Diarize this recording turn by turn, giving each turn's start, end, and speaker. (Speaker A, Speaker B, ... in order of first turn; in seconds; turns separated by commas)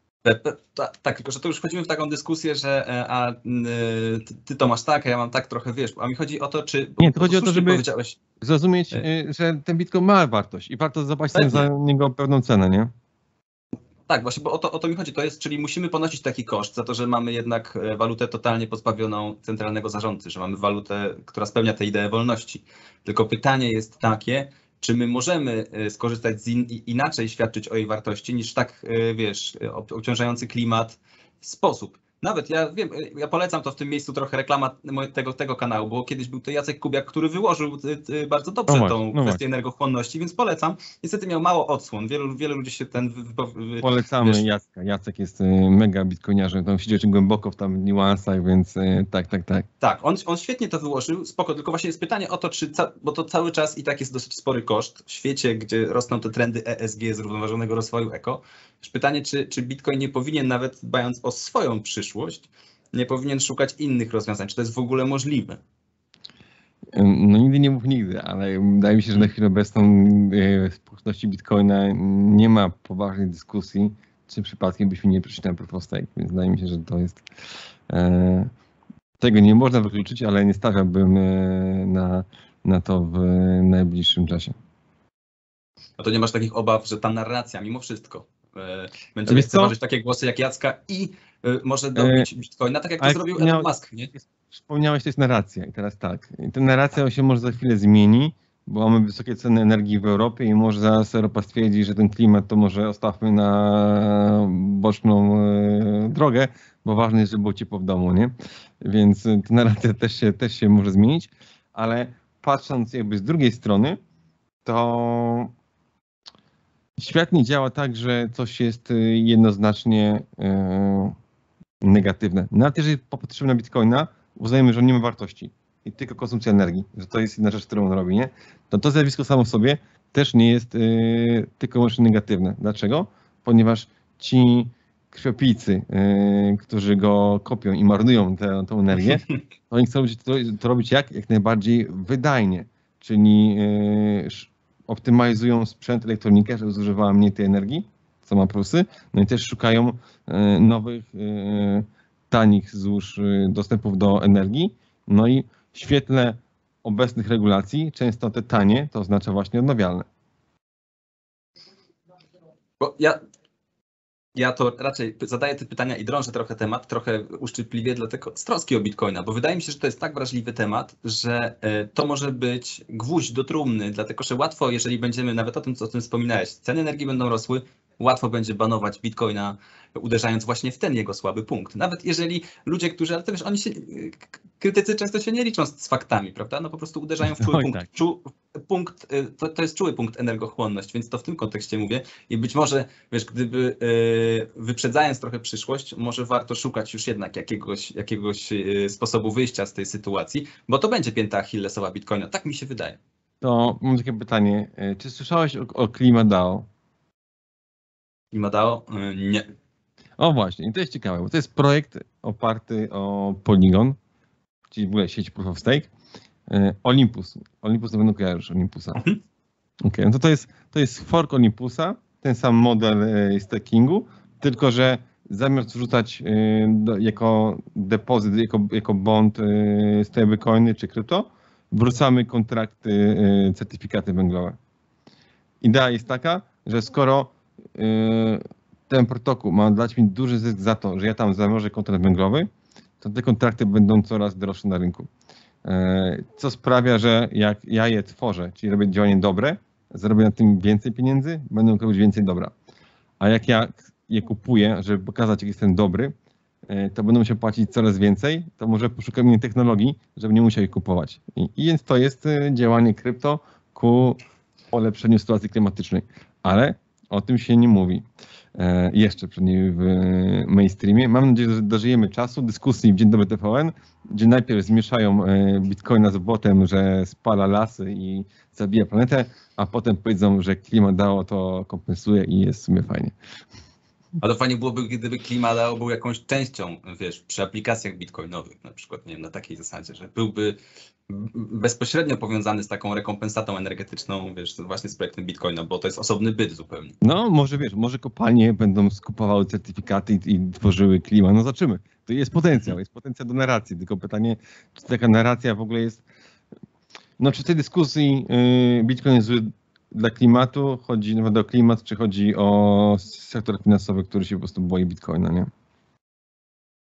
Speaker A: 0.2-8.2, Speaker B: 7.0-7.8, Speaker B: 8.4-12.9, Speaker A: 11.3-11.7, Speaker A: 14.1-44.5, Speaker B: 38.7-39.4, Speaker B: 43.8-49.7, Speaker A: 49.8-65.6, Speaker B: 66.9-77.2, Speaker B: 77.9-78.5, Speaker B: 79.2-84.5, Speaker A: 86.0-94.1, Speaker B: 89.3-89.7, Speaker B: 92.0-92.3, Speaker B: 93.0-108.3, Speaker B: 108.8-114.0, Speaker B: 114.7-115.5, Speaker B: 117.0-121.2, Speaker B: 121.8-160.1, Speaker A: 162.8-163.2, Speaker A: 164.3-203.0, Speaker B: 187.4-187.9, Speaker B: 203.4-206.7, Speaker A: 208.3-209.5, Speaker B: 210.2-214.0, Speaker B: 214.7-215.9, Speaker B: 216.5-219.1, Speaker B: 219.8-234.6, Speaker B: 235.6-242.5, Speaker B: 243.0-245.1, Speaker B: 245.6-252.5, Speaker B: 253.2-256.1, Speaker B: 256.7-264.2, Speaker B: 264.7-268.0, Speaker B: 268.6-283.1, Speaker A: 284.2-297.0, Speaker B: 297.0-306.0, Speaker B: 307.2-315.5